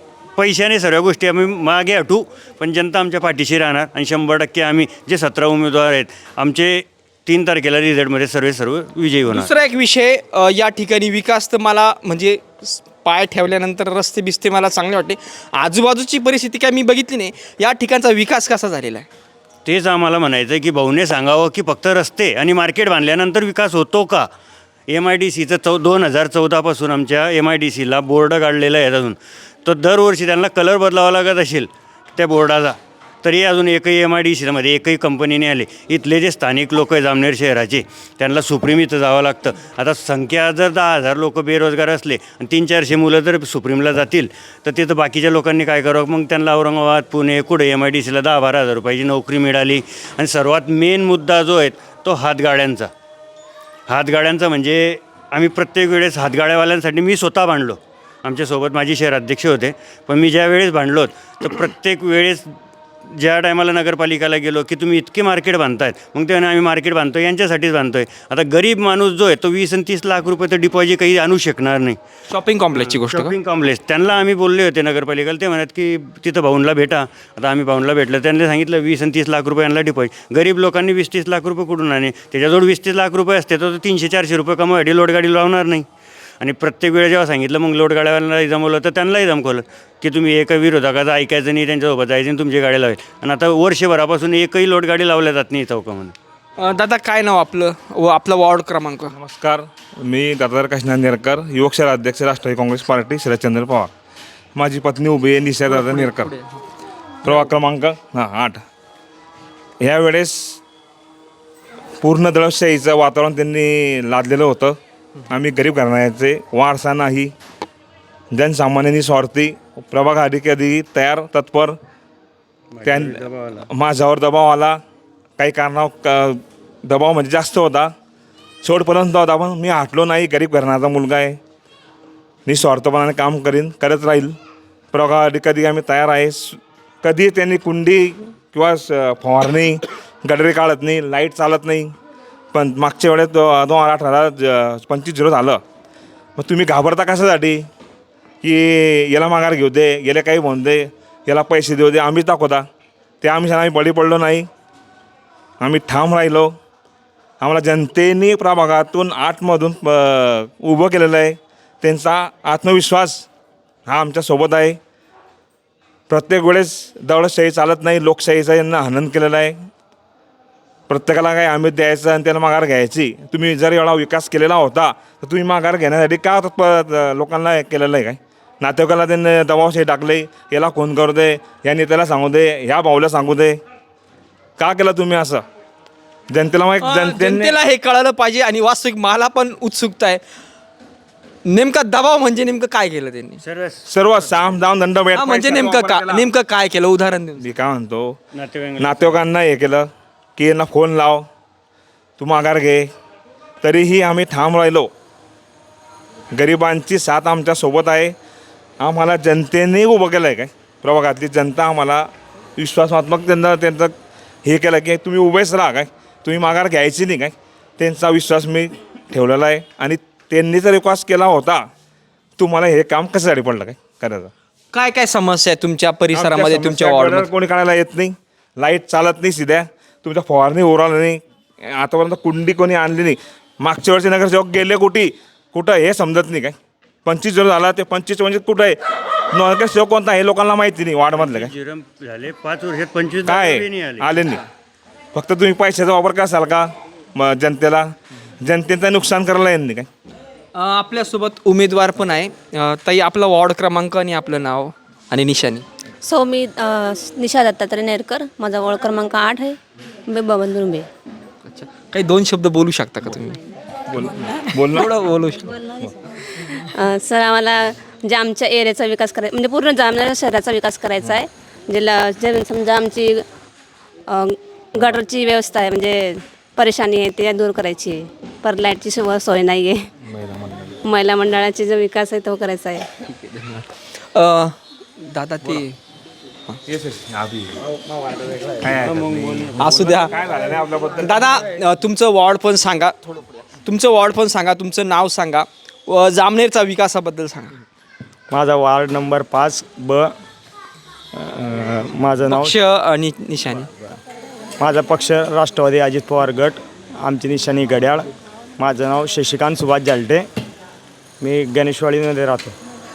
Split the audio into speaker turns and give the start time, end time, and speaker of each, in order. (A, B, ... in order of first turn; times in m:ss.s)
0:00.4-0:09.5 A
0:09.3-0:19.1 B
0:19.6-0:24.3 A
0:24.9-0:52.9 A
0:53.9-1:02.5 A
1:03.0-1:12.0 A
1:12.3-1:13.3 B
1:12.8-1:25.8 A
1:26.4-1:36.1 A
1:36.6-1:39.1 B
1:39.1-1:43.9 C
1:44.6-1:46.3 C
1:45.7-1:46.5 B
1:47.2-1:48.6 C
1:49.8-1:50.6 C
1:52.0-1:54.8 C
1:55.3-1:57.3 C
1:58.3-2:01.8 C
2:02.7-2:03.6 A
2:02.8-2:04.8 C
2:05.4-2:07.9 C
2:08.6-2:11.4 C
2:12.4-2:14.3 C
2:14.9-2:21.9 C
2:22.5-2:25.6 C
2:26.4-2:27.6 C
2:28.4-2:32.6 C
2:33.2-2:34.5 C
2:35.6-2:36.5 C
2:37.4-2:43.2 C
2:43.8-2:44.8 C
2:46.1-2:49.6 C
2:50.9-3:03.6 C
3:04.6-3:05.4 C
3:06.3-3:07.6 C
3:06.8-3:10.2 B
3:11.4-3:13.4 B
3:13.4-3:14.6 A
3:13.9-3:16.2 C
3:15.1-3:17.5 B
3:17.4-3:18.2 C
3:18.3-3:19.2 A
3:18.8-3:21.2 C
3:22.2-3:22.9 C
3:23.6-3:24.9 C
3:26.3-3:28.1 C
3:28.8-3:41.7 C
3:42.4-3:44.3 C
3:44.7-3:47.3 B
3:46.1-3:58.8 C
3:59.3-4:01.5 C
4:01.2-4:04.1 A
4:03.2-4:04.4 C
4:05.1-4:09.9 C
4:10.5-4:15.6 B
4:16.0-4:20.9 D
4:21.5-4:23.4 B
4:23.9-4:25.0 C
4:24.7-4:25.5 B
4:25.6-4:25.8 D
4:26.6-4:33.2 D
4:34.1-4:39.9 D
4:40.0-4:40.8 C
4:40.8-4:42.9 D
4:43.1-4:45.8 B
4:46.6-4:47.7 C
4:48.6-4:51.4 C
4:48.7-4:49.7 A
4:49.6-4:50.1 B
4:51.0-4:57.5 B
4:58.3-5:00.2 E
5:01.1-5:02.5 E
5:02.3-5:03.7 B
5:04.6-5:10.3 E
5:11.2-5:12.5 E